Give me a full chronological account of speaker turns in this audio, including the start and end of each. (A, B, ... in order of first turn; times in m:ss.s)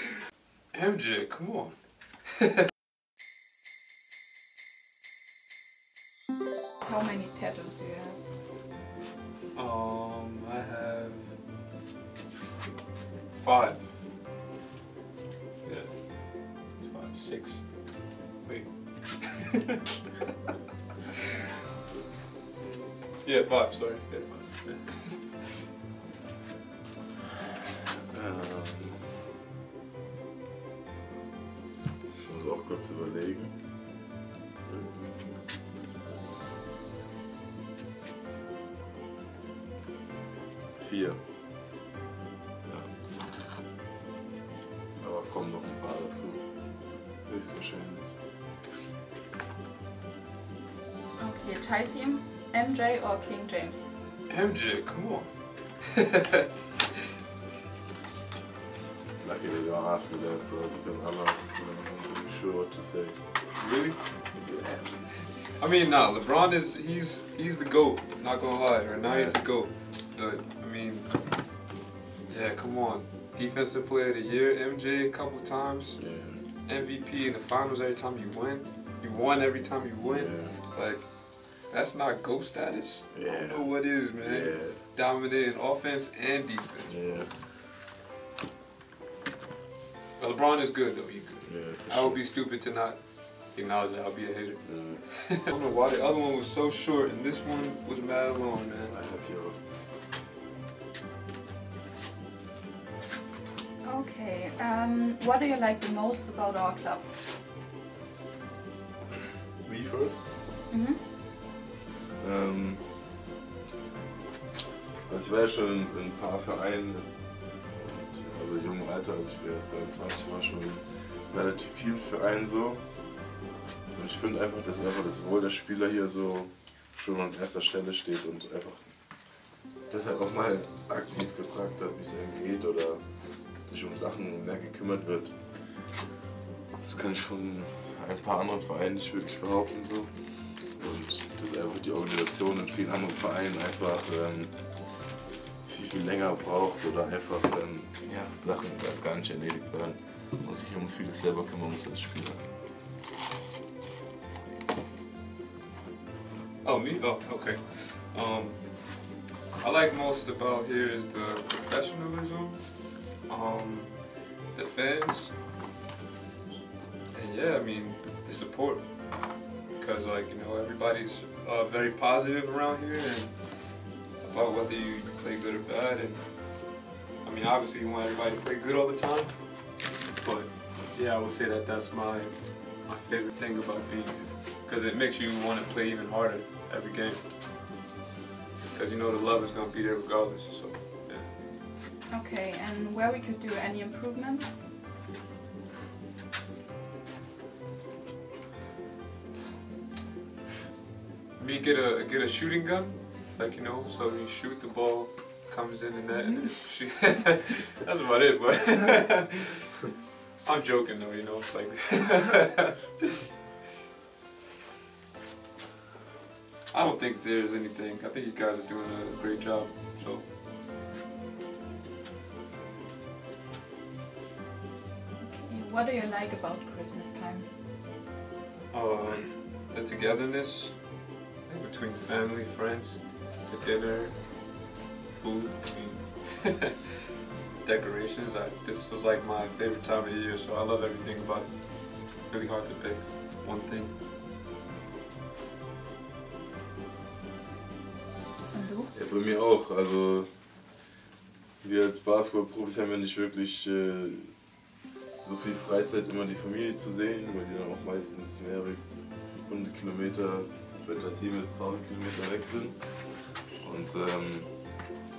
0:00.7-0:02.3 A
0:06.8-0:08.2 B
0:09.5-0:11.4 A
0:13.3-0:13.9 A
0:15.6-0:19.5 A
0:22.6-0:25.4 A
0:28.1-0:29.2 C
0:32.2-0:34.1 C
0:34.6-0:36.3 C
0:40.8-0:41.2 C
0:42.6-0:43.0 C
0:45.0-0:48.1 C
0:51.2-0:53.8 B
0:54.3-0:55.8 A
0:59.2-1:03.2 C
1:03.6-1:04.3 A
1:04.4-1:05.0 C
1:05.6-1:11.5 A
1:09.0-1:09.4 C
1:12.3-1:27.2 A
1:16.0-1:16.4 C
1:20.0-1:20.6 C
1:23.1-1:24.8 C
1:26.9-1:27.4 C
1:30.2-1:39.0 A
1:31.4-1:32.2 C
1:34.6-1:35.1 C
1:38.9-1:39.6 C
1:43.8-1:47.1 B
1:49.6-1:50.3 C
1:50.7-1:51.0 B
1:52.2-1:52.9 C
1:55.1-2:03.2 C
2:03.9-2:16.0 C
2:16.8-2:32.5 C
2:36.6-2:45.4 A
2:47.1-3:07.3 A
3:08.7-3:11.3 A
3:12.1-3:14.6 B
3:21.4-3:29.6 A
3:26.2-3:26.5 B
3:30.4-3:32.8 A
3:36.7-3:40.3 A
3:45.2-3:47.5 B
3:48.7-3:56.7 A
3:57.6-4:04.0 A
4:08.5-4:08.9 B
4:08.9-4:10.6 C
4:11.6-4:14.7 C
4:15.2-4:25.0 C